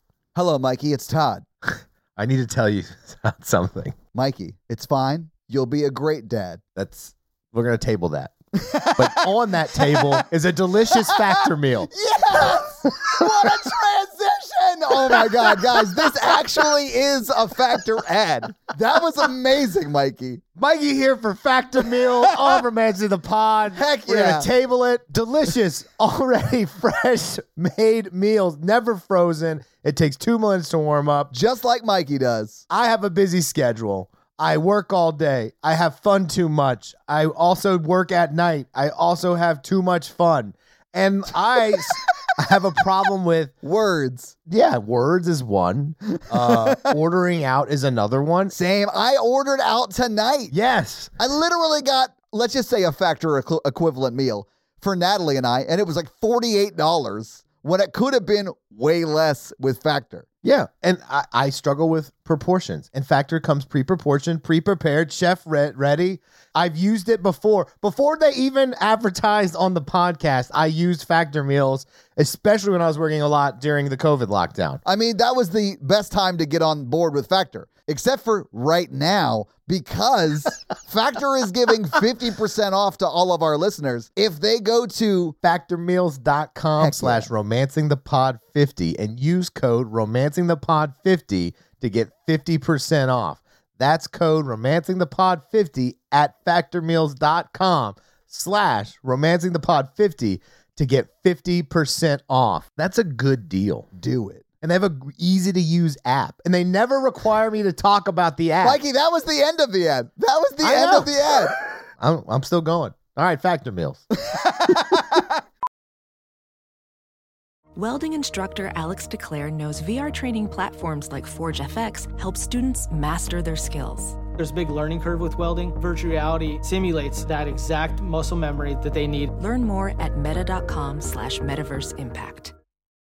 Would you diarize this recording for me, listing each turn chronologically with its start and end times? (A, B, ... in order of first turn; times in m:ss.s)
0:00.3-0:01.4 A
0:01.7-0:03.9 B
0:04.1-0:06.6 A
0:06.8-0:08.3 B
0:08.6-0:10.2 A
0:08.9-0:11.9 B
0:10.9-0:20.4 A
0:15.1-0:15.8 B
0:20.6-0:31.3 B
0:21.9-0:22.6 A
0:23.7-0:24.5 A
0:31.3-0:32.6 A
0:32.7-0:43.5 B
0:43.6-0:44.3 A
0:44.5-0:48.6 B
0:46.3-0:47.0 A
0:48.5-0:50.5 A
0:50.5-0:51.1 B
0:51.2-1:00.2 A
1:00.4-1:14.8 B
1:14.8-1:25.3 A
1:25.4-1:43.9 B
1:26.8-1:27.3 A
1:44.0-1:44.4 A
1:44.6-1:48.8 B
1:48.6-1:51.5 A
1:50.6-1:54.0 B
1:54.2-1:55.3 A
1:57.8-2:04.3 C
2:04.3-2:09.3 D
2:09.4-2:12.5 C